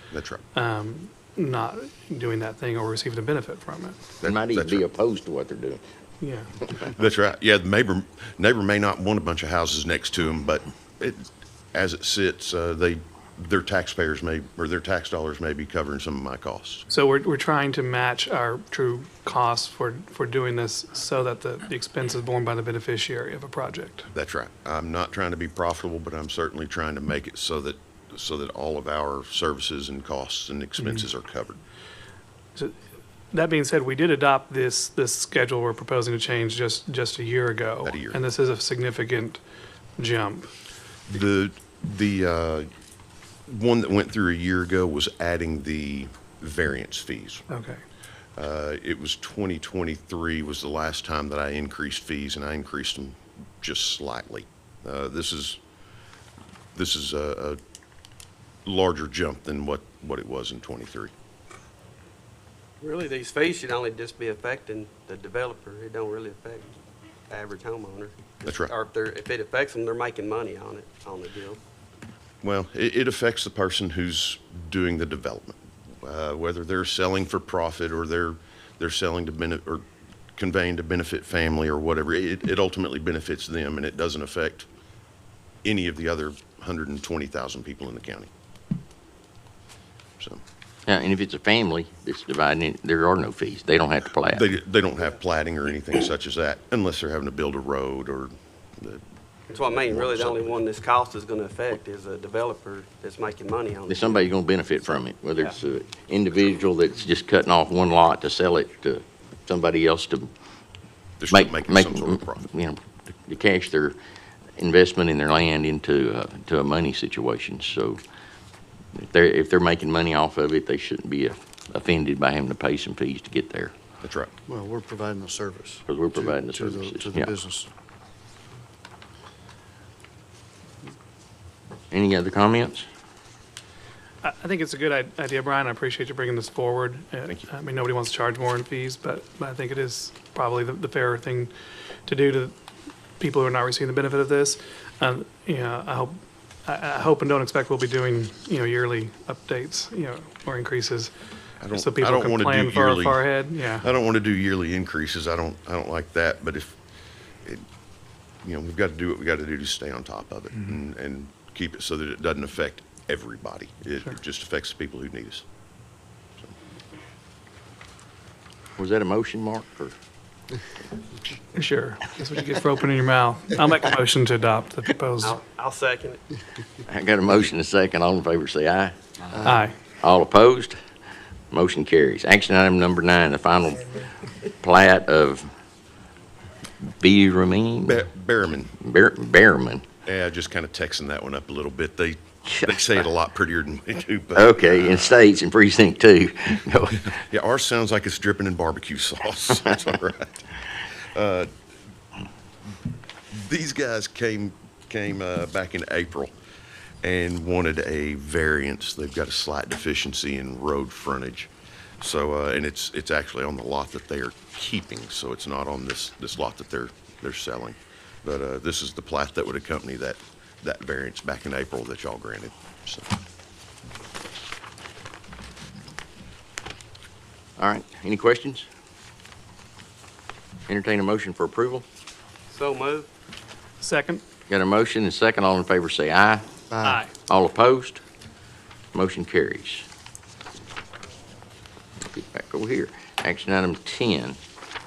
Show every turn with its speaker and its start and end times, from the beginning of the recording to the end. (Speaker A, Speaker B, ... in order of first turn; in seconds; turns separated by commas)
Speaker A: 0.1-0.4, Speaker B: 0.5-4.0, Speaker A: 4.2-4.8, Speaker C: 4.2-5.8, Speaker B: 6.2-6.5, Speaker A: 6.9-16.8, Speaker B: 16.9-24.1, Speaker A: 24.1-31.6, Speaker B: 33.3-39.4, Speaker A: 37.8-38.2, Speaker B: 40.0-40.5, Speaker A: 41.1-42.7, Speaker A: 43.5-47.4, Speaker B: 47.5-47.8, Speaker A: 48.4-55.6, Speaker A: 56.7-57.6, Speaker A: 58.6-61.1, Speaker D: 62.8-66.7, Speaker D: 67.3-71.6, Speaker A: 68.4-68.7, Speaker A: 72.4-79.8, Speaker A: 80.3-84.7, Speaker A: 85.6-88.3, Speaker C: 90.9-94.4, Speaker A: 94.3-99.0, Speaker D: 99.5-104.3, Speaker A: 99.7-100.6, Speaker C: 103.9-110.3, Speaker A: 111.2-112.5, Speaker C: 111.3-114.0, Speaker C: 114.6-118.0, Speaker C: 119.0-123.7, Speaker A: 124.0-124.3, Speaker E: 124.5-127.7, Speaker C: 125.9-127.3, Speaker C: 131.9-132.9, Speaker B: 134.2-141.5, Speaker B: 142.1-142.6, Speaker B: 143.2-151.1, Speaker A: 151.6-153.3, Speaker B: 151.7-153.8, Speaker A: 153.8-156.8, Speaker A: 158.4-165.4, Speaker C: 168.8-169.9, Speaker B: 171.5-175.4, Speaker D: 175.2-176.2, Speaker C: 176.9-178.9, Speaker E: 179.3-179.6, Speaker B: 179.4-179.8, Speaker C: 180.0-180.8, Speaker C: 181.5-184.0, Speaker C: 184.6-185.5, Speaker C: 187.0-188.1, Speaker A: 187.8-188.7, Speaker C: 188.8-189.8, Speaker A: 190.1-195.2, Speaker C: 194.3-197.2, Speaker A: 197.1-201.5, Speaker A: 203.3-206.3, Speaker A: 207.0-223.1, Speaker C: 227.6-228.7, Speaker C: 230.7-231.8, Speaker D: 232.5-233.1, Speaker B: 233.8-234.2, Speaker C: 234.5-236.4, Speaker E: 236.7-237.0, Speaker B: 236.8-237.1, Speaker C: 237.2-238.0, Speaker C: 238.9-239.8, Speaker C: 242.1-244.4